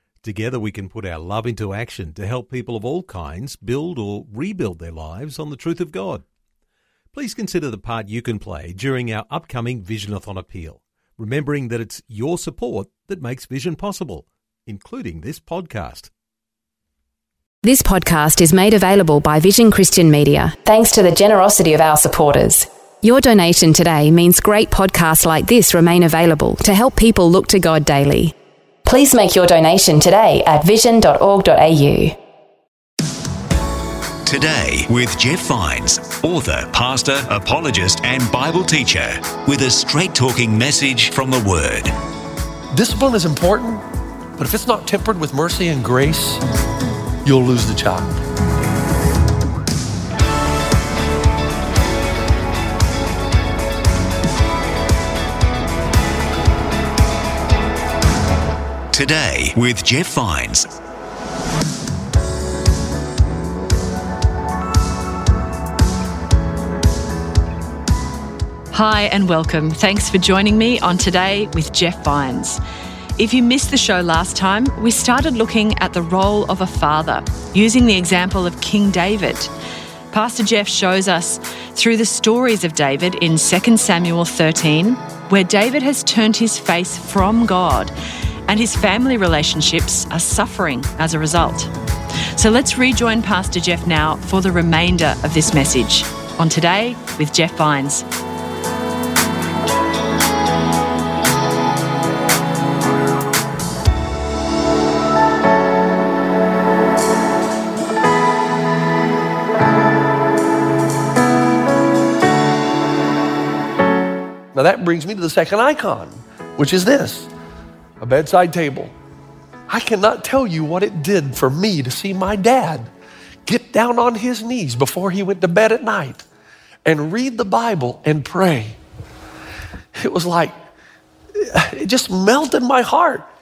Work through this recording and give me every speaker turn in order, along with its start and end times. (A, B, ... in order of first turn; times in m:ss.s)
0:00.2-0:06.2 A
0:07.1-0:16.1 A
0:17.6-0:28.3 B
0:28.8-0:32.2 B
0:34.2-0:41.9 C
0:42.7-0:43.8 D
0:44.4-0:46.4 D
0:47.2-0:48.1 D
0:58.9-1:00.7 C
1:08.7-1:12.6 E
1:13.2-1:19.5 E
1:20.1-1:27.9 E
1:28.5-1:31.7 E
1:32.3-1:38.0 E
1:54.5-1:57.3 D
1:58.0-1:58.9 D
1:59.7-2:02.9 D
2:03.4-2:06.2 D
2:06.8-2:08.8 D
2:09.9-2:10.5 D
2:11.3-2:13.2 D